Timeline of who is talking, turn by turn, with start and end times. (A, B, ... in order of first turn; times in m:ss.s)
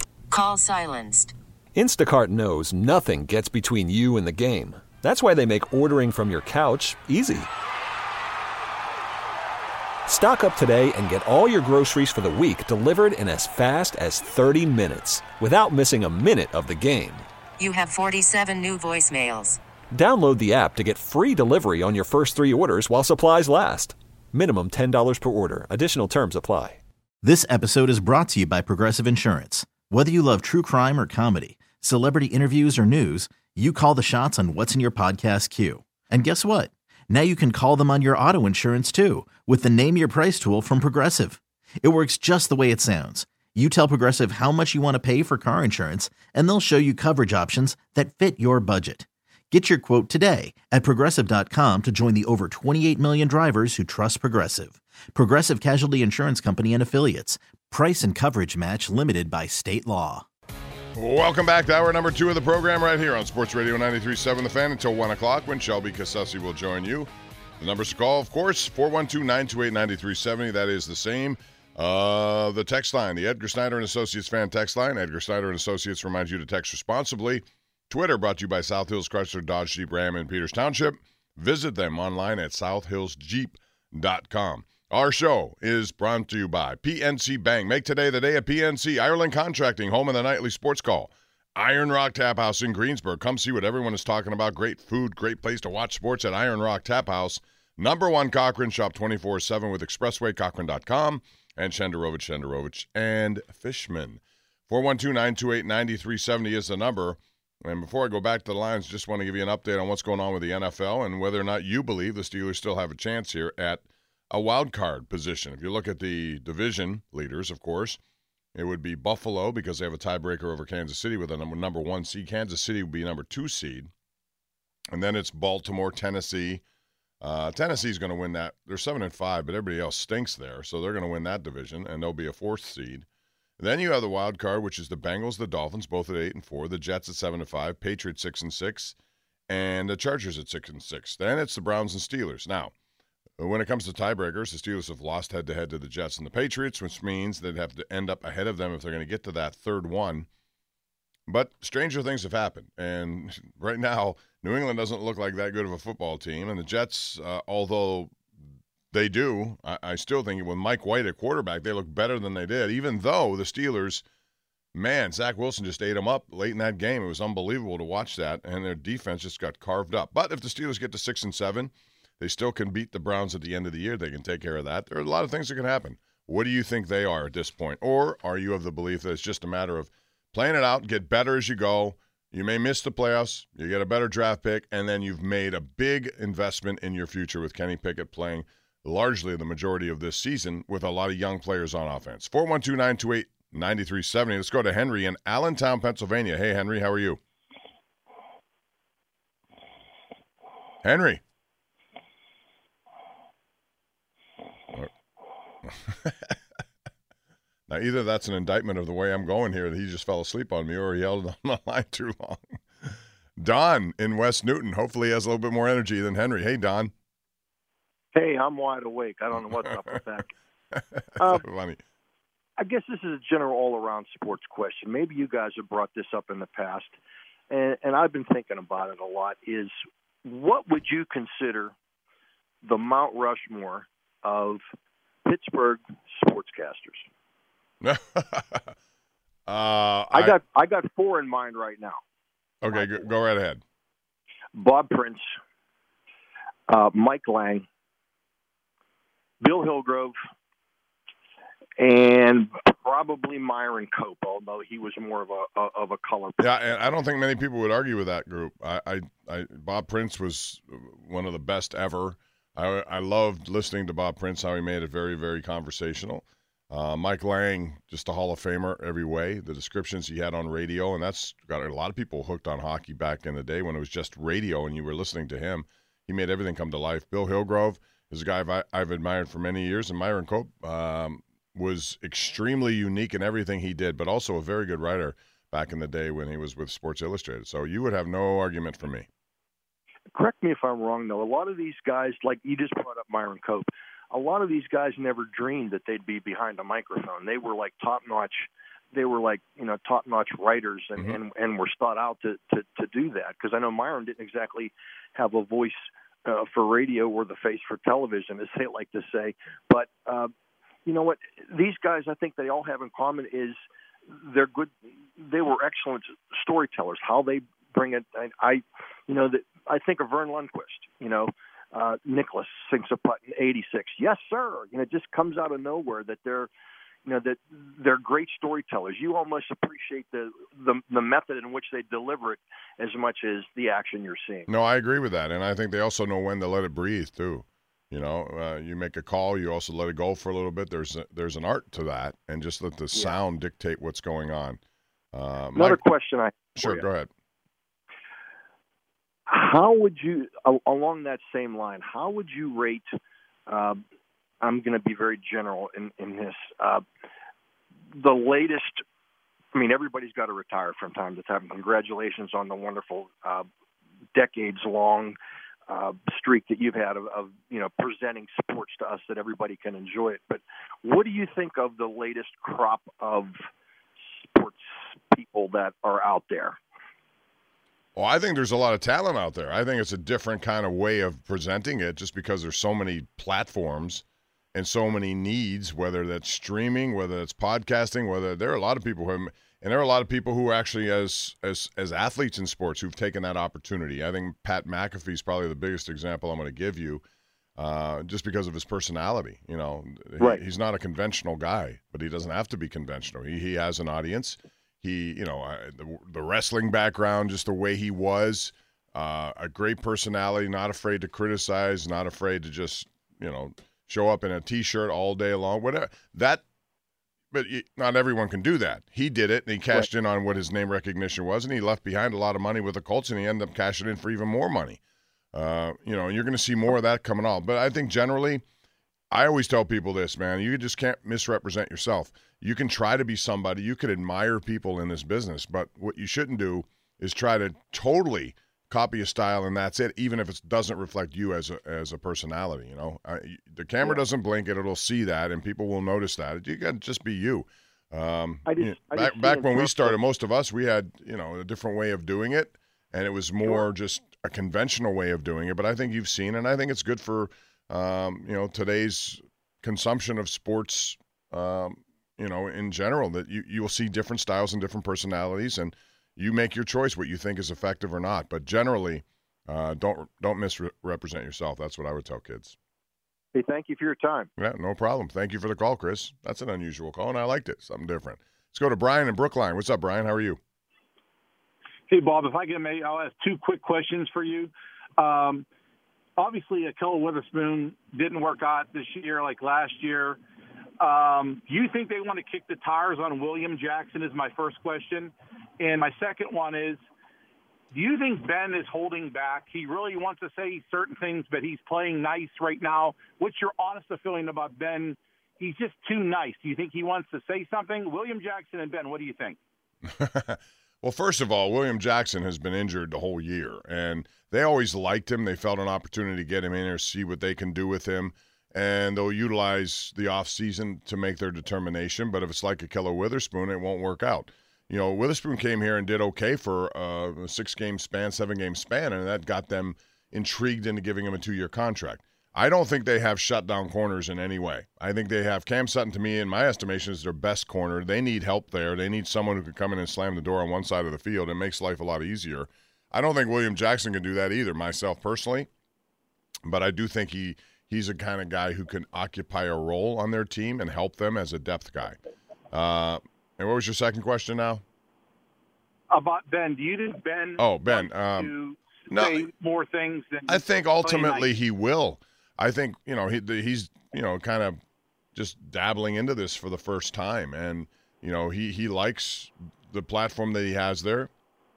0:00.3-0:01.3 A
0:01.7-0:07.5 B
0:10.1-0:17.3 B
0:17.6-0:19.6 A
0:19.9-0:26.8 B
0:27.2-1:00.2 C
1:01.0-1:58.0 D
1:58.5-2:03.9 D
2:04.9-2:06.6 D
2:07.2-2:13.0 D
2:13.6-2:18.9 D
2:19.5-2:22.7 D
2:23.4-2:30.3 D
2:31.3-2:38.1 D
2:38.9-2:44.0 D
2:44.7-3:17.2 D
3:20.8-3:21.2 D
3:25.6-3:26.4 D
3:27.7-3:36.9 D
3:38.1-3:40.3 E
3:40.8-3:41.8 D
3:41.2-3:41.4 E
3:42.6-3:47.0 E
3:47.5-3:51.7 E
3:52.6-3:54.6 E
3:55.2-3:57.1 E
3:57.8-3:58.7 D
3:59.5-4:00.4 D
4:00.1-4:02.0 E
4:02.6-4:03.6 D
4:04.5-4:05.3 E
4:06.7-4:07.6 E
4:09.4-4:10.2 E
4:11.8-4:16.5 E
4:16.4-4:49.1 D
4:50.1-5:10.3 E
5:10.8-5:26.5 E
5:27.0-5:34.5 E
5:34.5-5:44.6 D
5:45.1-5:45.8 D
5:45.6-5:46.8 E
5:46.6-5:47.1 D
5:49.3-5:53.8 E
5:54.4-5:56.8 E
5:57.9-5:58.8 E
5:59.5-6:03.4 E
6:04.1-6:05.2 E
6:05.7-6:13.4 E
6:14.0-6:16.6 E
6:18.0-6:37.0 D
6:37.6-6:56.4 D
6:57.3-7:04.8 D
7:05.3-7:08.4 D
7:09.1-7:52.5 D
7:28.4-7:30.0 E
7:53.3-7:54.3 E
7:54.4-8:00.4 D
8:01.9-8:05.4 F
8:06.2-8:10.2 F
8:10.8-8:16.8 F
8:17.7-8:29.4 F
8:29.8-9:05.5 D
9:06.4-9:12.0 D
9:12.5-9:14.6 D
9:15.9-9:21.3 F
9:17.4-9:18.3 D
9:18.9-9:19.3 D
9:20.3-9:24.6 D
9:25.1-9:31.1 D